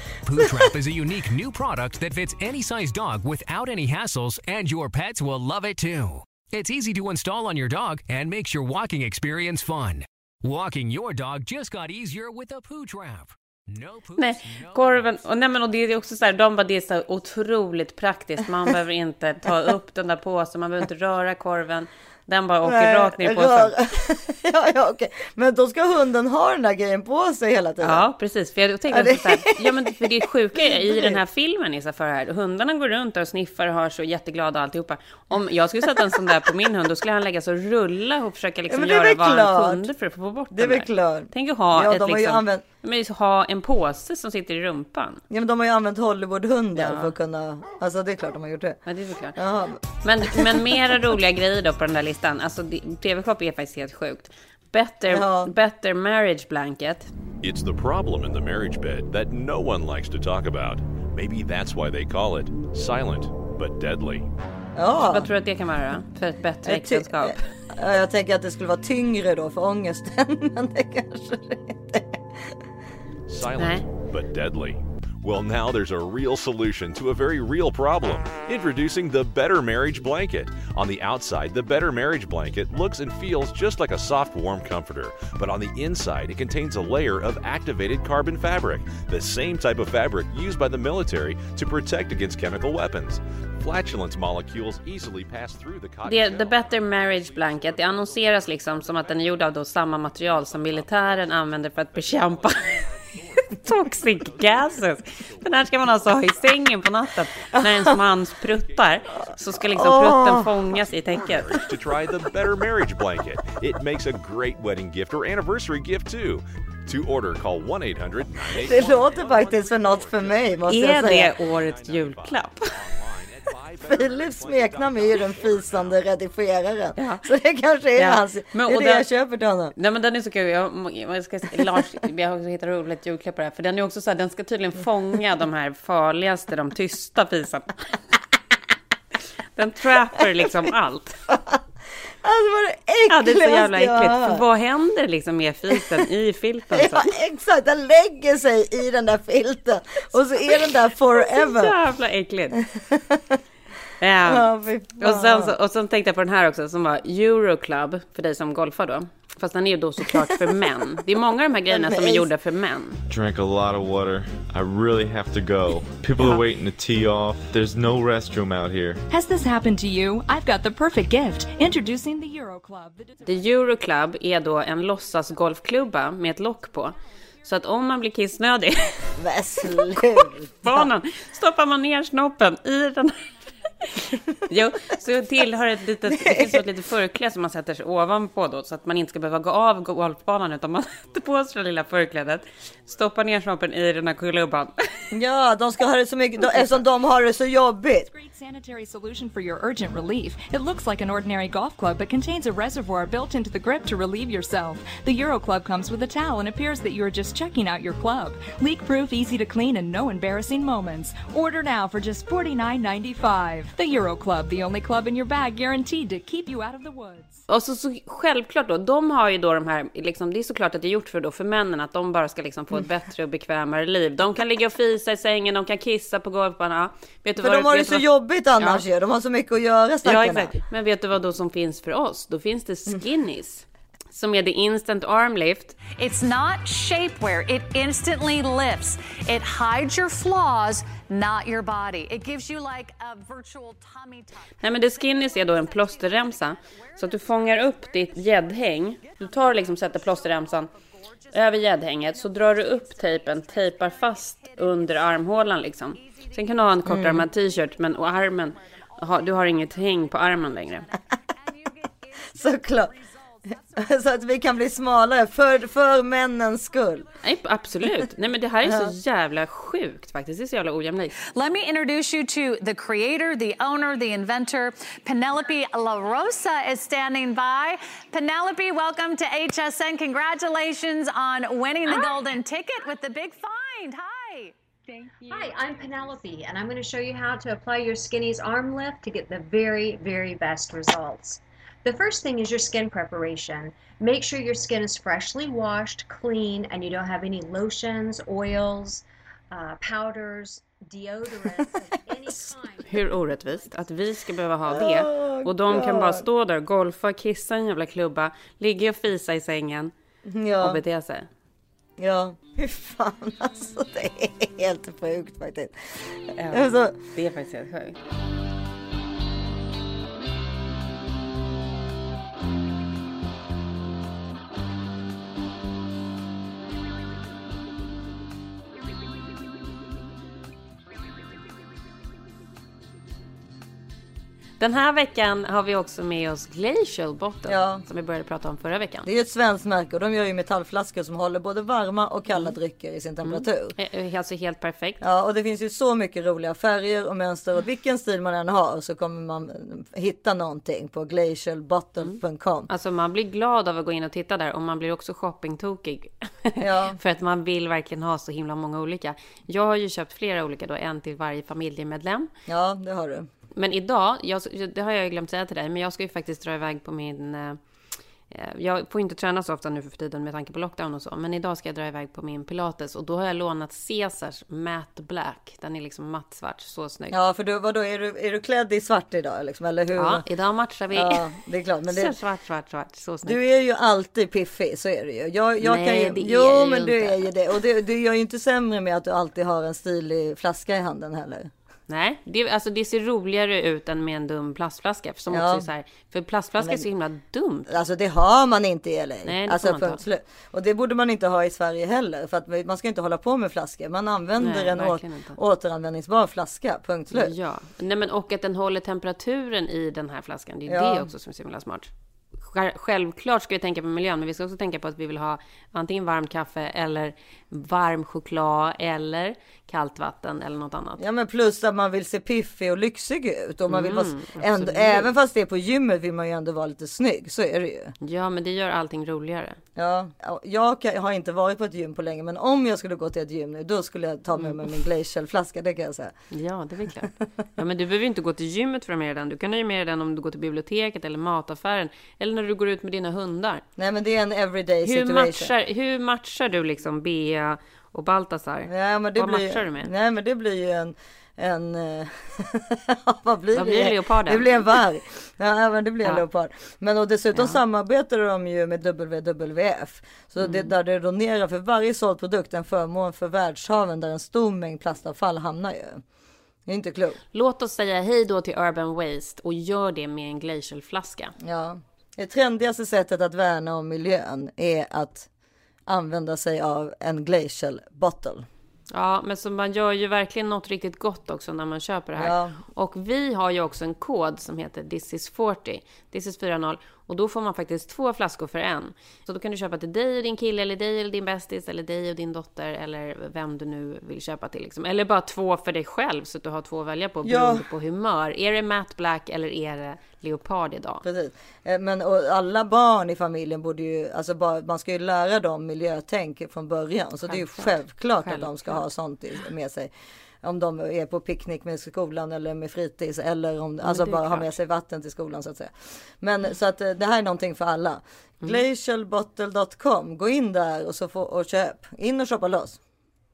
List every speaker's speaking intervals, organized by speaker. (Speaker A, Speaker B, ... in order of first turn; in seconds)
Speaker A: 0.2-15.1
Speaker B: 0.4-0.7, 22.6-28.0, 28.9-31.2, 35.8-36.5, 38.7-39.9, 40.5-42.6, 45.3-48.8, 49.3-50.9, 55.1-55.5, 64.8-65.3, 66.6-72.5, 107.5-107.9, 109.7-110.6, 118.5-121.4, 123.8-129.7, 141.3-141.6, 142.2-144.4, 146.7-151.7, 152.6-153.4, 154.2-155.5, 160.1-160.5, 161.7-162.3, 179.2-180.9, 186.1-186.6, 195.1-198.1, 227.4-230.5, 256.8-257.3, 262.3-262.9, 263.7-267.1, 268.6-268.9, 304.7-306.2, 310.2-310.8, 312.0-316.9, 337.4-337.8, 339.0-343.7, 345.0-352.7, 356.6-357.0, 362.5-363.3, 377.1-380.2, 380.9-382.1, 383.2-391.5, 395.3-395.6, 397.7-407.3, 410.7-411.1, 421.0-427.9, 429.8-436.1, 443.8-445.5, 448.7-466.0, 466.6-467.2, 471.4-475.3, 475.9-478.4, 482.2-482.6, 497.2-497.6, 501.0-509.9, 510.4-522.8
Speaker C: 14.2-23.7, 27.8-45.2, 46.8-47.1, 48.9-49.4, 50.0-57.1, 65.1-67.4, 73.5-73.8, 96.0-102.8, 103.5-111.6, 120.7-122.7, 127.0-127.2, 128.0-129.1, 129.7-138.0, 139.6-141.2, 143.1-147.1, 151.2-152.6, 154.0-154.4, 155.0-163.0, 173.2-179.0, 179.8-183.2, 183.8-194.8, 217.5-228.8, 230.0-235.8, 244.6-250.7, 251.3-260.9, 267.2-271.1, 302.8-309.9, 310.6-311.3, 316.3-318.0, 334.6-339.1, 343.2-345.0, 352.7-362.3, 363.6-367.6, 368.3-377.1, 379.9-381.2, 381.9-383.4, 385.6-387.2, 391.9-397.7, 399.2-400.0, 404.4-405.4, 407.1-421.0, 423.7-425.1, 428.0-429.6, 436.3-443.6, 444.8-449.9, 453.5-454.4, 460.4-460.7, 467.3-471.3, 478.9-501.0, 507.3-508.8, 513.8-514.5
Speaker D: 57.4-64.3, 73.3-109.6, 110.7-126.1
Speaker E: 163.1-169.0
Speaker F: 169.1-173.2, 198.1-217.4, 285.1-285.5
Speaker G: 235.9-244.6, 271.3-284.5
Speaker H: 285.3-303.8